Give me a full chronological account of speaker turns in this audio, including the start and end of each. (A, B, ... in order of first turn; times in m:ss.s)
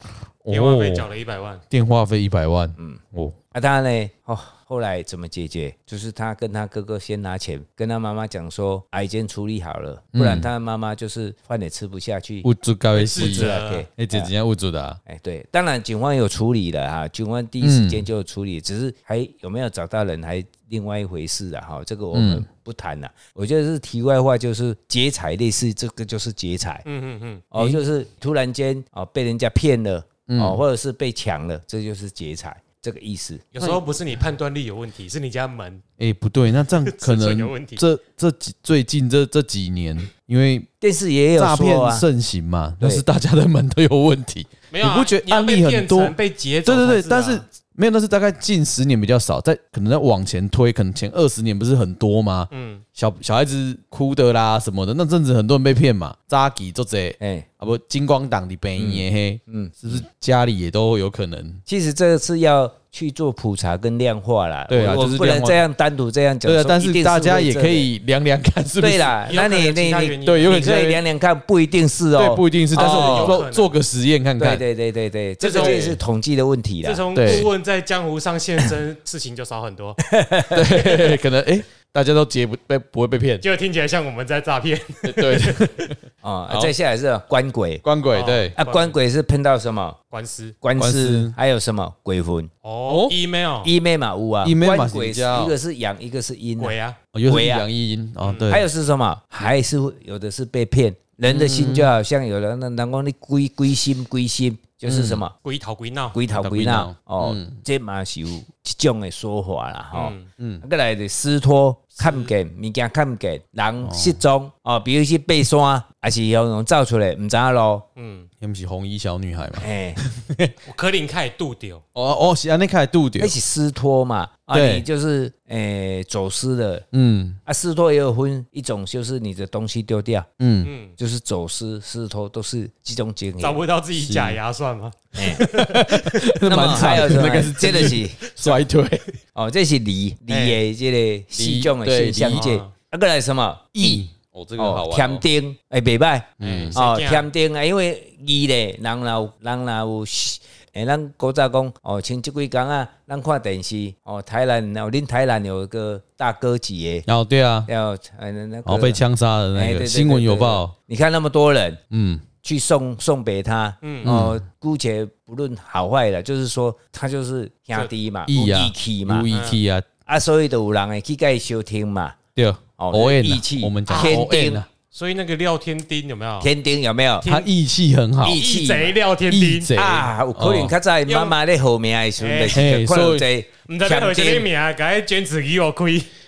0:00.4-0:01.1 A
0:00.5-0:01.6 B
0:01.7-0:03.4 A
0:03.5-0:12.5 C
0:10.1-0:10.5 A
0:12.4-0:15.0 A
0:12.9-0:13.9 B
0:13.2-0:14.3 C
0:15.0-0:26.8 C
0:17.6-0:18.1 A
0:22.1-0:22.4 A
0:26.8-0:27.4 B
0:27.5-0:33.4 C
0:30.3-0:30.6 A
0:33.5-0:35.8 B
0:36.0-0:40.7 A
0:36.7-0:37.8 B
0:40.8-0:42.0 C
0:41.4-1:01.6 A
0:44.7-0:47.4 B
0:52.5-0:52.8 B
0:57.2-0:57.4 C
0:58.8-1:00.0 C
1:01.6-1:07.9 C
1:04.7-1:05.6 A
1:06.4-1:09.2 A
1:08.8-1:13.4 C
1:09.3-1:10.7 B
1:10.2-1:11.0 A
1:12.2-1:14.6 A
1:12.7-1:13.8 B
1:14.4-1:17.4 C
1:15.4-1:16.0 B
1:15.5-1:16.0 A
1:16.8-1:20.0 B
1:17.1-1:17.5 A
1:20.0-1:20.6 C
1:20.5-1:23.4 A
1:23.4-1:25.9 B
1:25.0-1:26.0 A
1:26.2-1:27.8 C
1:27.8-1:28.5 A
1:28.1-1:29.0 B
1:28.6-1:30.0 C
1:30.1-1:30.6 B
1:30.6-1:32.5 C
1:30.8-1:31.4 A
1:32.6-1:33.7 B
1:32.8-1:33.2 A
1:33.6-1:36.7 C
1:34.4-1:35.5 A
1:36.6-1:37.0 B
1:37.1-1:38.6 A
1:37.2-1:37.7 C
1:38.2-1:38.6 B
1:38.5-1:45.3 C
1:41.3-1:41.9 A
1:44.8-1:45.2 A
1:45.4-1:46.2 B
1:46.1-1:57.8 C
1:46.3-1:47.6 A
1:49.9-1:50.3 B
1:52.0-1:52.3 B
1:53.8-1:54.2 A
1:58.0-1:58.3 B
1:58.4-2:00.5 A
1:59.6-2:00.0 C
2:00.6-2:01.8 B
2:01.9-2:03.3 A
2:03.2-2:06.8 C
2:04.5-2:04.8 A
2:06.9-2:07.4 A
2:07.4-2:10.3 C
2:10.4-2:10.7 A
2:10.6-2:11.0 B
2:11.0-2:13.6 C
2:13.4-2:17.4 B
2:14.0-2:14.4 A
2:15.1-2:15.4 C
2:15.4-2:19.0 A
2:16.4-2:18.2 C
2:18.3-2:18.6 B
2:19.3-2:24.0 C
2:20.3-2:20.6 B
2:21.3-2:22.4 A
2:22.3-2:22.7 B
2:23.7-2:25.2 A
2:24.6-2:37.0 C
2:26.4-2:26.8 A
2:26.4-2:27.3 B
2:37.1-2:37.7 A
2:37.7-2:39.0 C
2:38.6-2:40.7 A
2:39.5-2:41.8 C
2:41.9-2:42.2 A
2:42.4-2:49.3 C
2:43.8-2:44.1 B
2:44.0-2:44.4 A
2:48.3-2:49.8 A
2:49.3-2:49.6 B
2:50.0-2:52.2 C
2:52.4-2:54.7 A
2:52.8-2:54.6 C
2:53.9-2:54.3 B
2:54.9-2:56.5 B
2:56.4-2:57.3 C
2:57.2-2:57.5 B
2:57.2-2:58.4 A
2:58.2-2:59.0 C
2:58.3-2:59.7 B
2:59.3-3:00.7 A
2:59.7-3:04.5 C
3:01.1-3:01.4 B
3:02.2-3:02.6 B
3:02.5-3:03.3 A
3:03.7-3:06.1 B